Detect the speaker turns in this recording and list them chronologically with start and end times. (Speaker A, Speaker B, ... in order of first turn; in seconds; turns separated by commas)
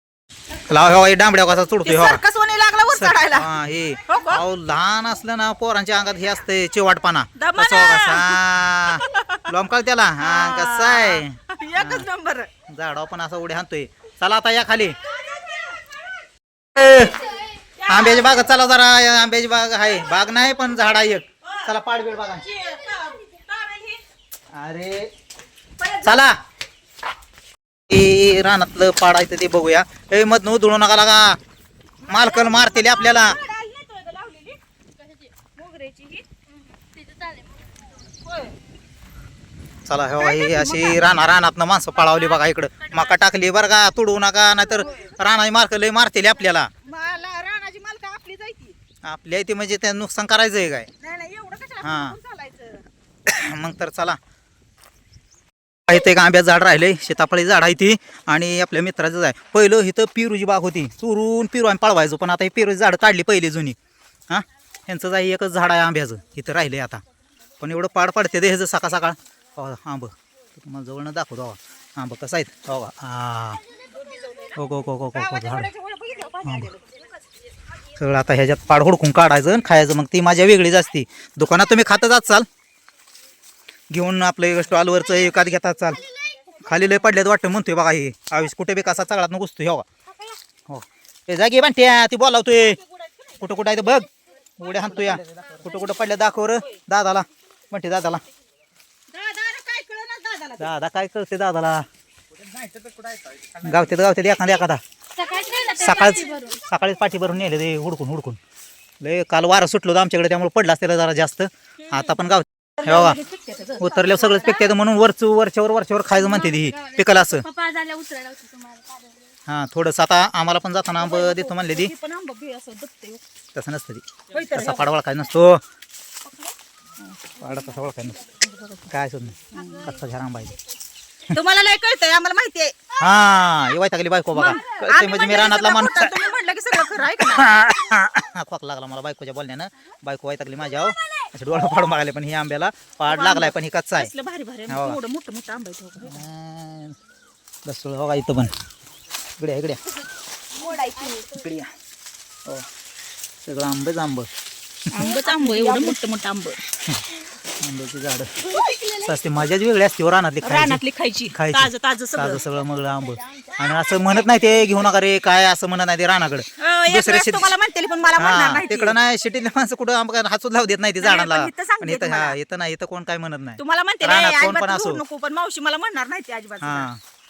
Speaker A: 0.7-2.2, Speaker B: 1.8-3.5, Speaker A: 2.9-12.1, Speaker B: 4.1-4.4, Speaker B: 7.4-8.4, Speaker B: 8.9-9.5, Speaker B: 10.2-12.5, Speaker A: 12.7-15.0, Speaker B: 15.1-15.7, Speaker A: 16.8-17.2, Speaker B: 17.8-18.5, Speaker A: 17.9-22.4, Speaker B: 22.3-24.0, Speaker A: 24.5-25.1, Speaker A: 26.0-26.4, Speaker A: 27.9-31.4, Speaker B: 32.0-34.6, Speaker A: 32.1-33.4, Speaker B: 35.2-36.4, Speaker C: 37.0-37.5, Speaker B: 38.2-38.5, Speaker A: 39.9-46.7, Speaker B: 40.2-41.1, Speaker B: 41.9-43.3, Speaker B: 44.8-45.1, Speaker B: 46.8-48.8, Speaker A: 49.0-50.9, Speaker B: 51.0-52.8, Speaker A: 51.8-52.2, Speaker A: 53.2-54.2, Speaker A: 55.9-63.8, Speaker A: 64.3-67.0, Speaker A: 67.6-73.6, Speaker B: 73.8-74.6, Speaker A: 74.5-75.7, Speaker B: 75.1-77.0, Speaker A: 76.4-76.7, Speaker A: 77.9-82.5, Speaker A: 83.9-86.0, Speaker A: 86.6-89.8, Speaker A: 90.7-92.8, Speaker B: 92.6-93.8, Speaker A: 93.4-94.1, Speaker A: 94.6-98.2, Speaker B: 94.7-95.8, Speaker B: 99.1-100.7, Speaker A: 100.6-101.8, Speaker A: 103.6-104.8, Speaker C: 105.2-106.5, Speaker B: 105.2-106.3, Speaker A: 105.7-108.4, Speaker A: 109.0-113.2, Speaker B: 111.8-112.2, Speaker B: 112.8-114.7, Speaker A: 113.8-117.4, Speaker C: 117.5-119.0, Speaker A: 119.5-121.9, Speaker B: 121.0-123.2, Speaker A: 123.5-125.6, Speaker B: 124.3-124.9, Speaker B: 126.3-127.2, Speaker A: 127.4-128.3, Speaker B: 128.4-128.9, Speaker A: 128.9-130.6, Speaker B: 129.5-129.9, Speaker B: 131.3-132.8, Speaker A: 133.0-136.2, Speaker B: 134.3-137.5, Speaker A: 137.2-144.1, Speaker B: 143.1-146.2, Speaker A: 144.7-145.0, Speaker A: 146.0-147.0, Speaker A: 147.6-148.5, Speaker A: 149.4-149.8, Speaker C: 150.5-151.4, Speaker A: 151.3-151.7, Speaker A: 153.4-154.3, Speaker B: 154.9-156.6, Speaker C: 155.0-156.0, Speaker A: 157.6-158.3, Speaker C: 158.4-159.1, Speaker A: 159.0-160.8, Speaker B: 160.4-162.4, Speaker A: 161.3-167.5, Speaker B: 166.6-169.0, Speaker A: 168.2-175.0, Speaker B: 171.0-172.4, Speaker B: 173.6-176.9, Speaker A: 176.6-177.0